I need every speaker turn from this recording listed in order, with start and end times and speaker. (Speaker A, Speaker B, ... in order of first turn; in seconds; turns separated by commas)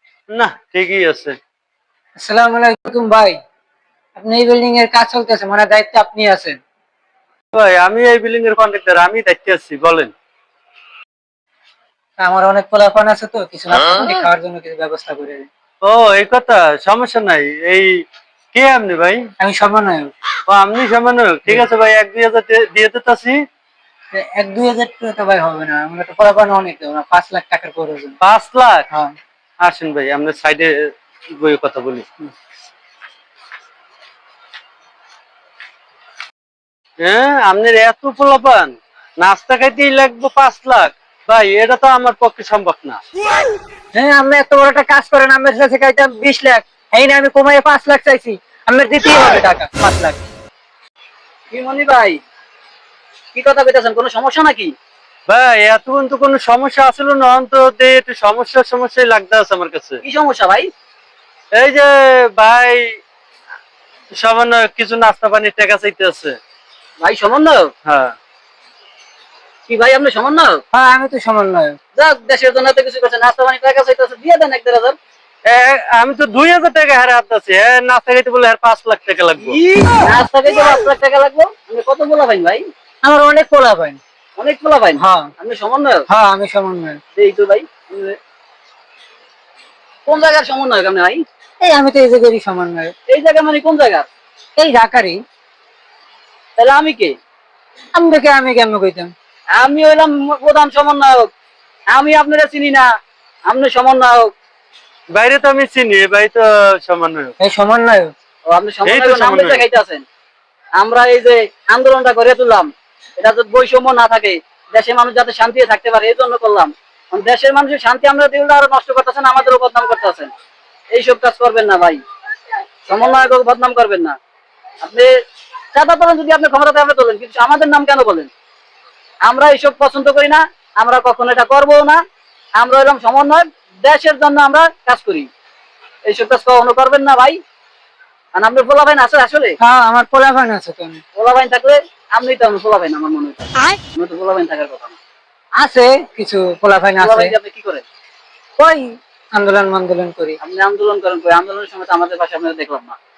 Speaker A: 0.3-1.4, Speaker B: 2.2-3.4, Speaker B: 4.2-6.6, Speaker A: 7.5-10.1, Speaker B: 12.2-15.5, Speaker A: 15.8-17.9, Speaker A: 18.5-19.2, Speaker B: 19.4-20.1, Speaker A: 20.5-23.4, Speaker B: 24.1-28.2, Speaker A: 28.2-28.9, Speaker A: 29.6-32.1, Speaker A: 37.0-43.0, Speaker B: 43.9-50.2, Speaker C: 51.5-52.2, Speaker C: 53.3-54.7, Speaker A: 55.3-60.0, Speaker C: 60.0-60.7, Speaker A: 61.5-63.0, Speaker A: 64.2-66.4, Speaker C: 67.0-67.7, Speaker A: 67.9-68.1, Speaker C: 69.7-70.6, Speaker B: 70.7-71.8, Speaker C: 72.0-75.0, Speaker A: 75.5-79.6, Speaker C: 79.5-82.7, Speaker B: 83.0-84.0, Speaker C: 84.4-86.0, Speaker B: 85.0-85.3, Speaker B: 86.1-87.0, Speaker C: 87.2-88.2, Speaker C: 90.1-91.2, Speaker B: 91.6-92.9, Speaker C: 93.1-94.1, Speaker B: 94.6-95.2, Speaker C: 96.6-97.2, Speaker B: 98.0-99.1, Speaker C: 99.5-101.3, Speaker C: 101.9-102.9, Speaker C: 103.5-104.3, Speaker A: 105.1-107.3, Speaker B: 107.4-108.1, Speaker C: 108.5-110.0, Speaker A: 108.9-109.6, Speaker C: 110.8-120.3, Speaker C: 120.9-122.0, Speaker C: 122.9-124.2, Speaker C: 124.8-125.1, Speaker C: 125.7-128.3, Speaker C: 129.2-132.0, Speaker C: 132.6-135.3, Speaker C: 136.1-137.4, Speaker C: 138.3-139.6, Speaker B: 139.6-141.0, Speaker C: 141.2-145.0, Speaker B: 145.6-147.3, Speaker C: 147.0-147.8, Speaker B: 148.6-150.4, Speaker C: 150.4-153.0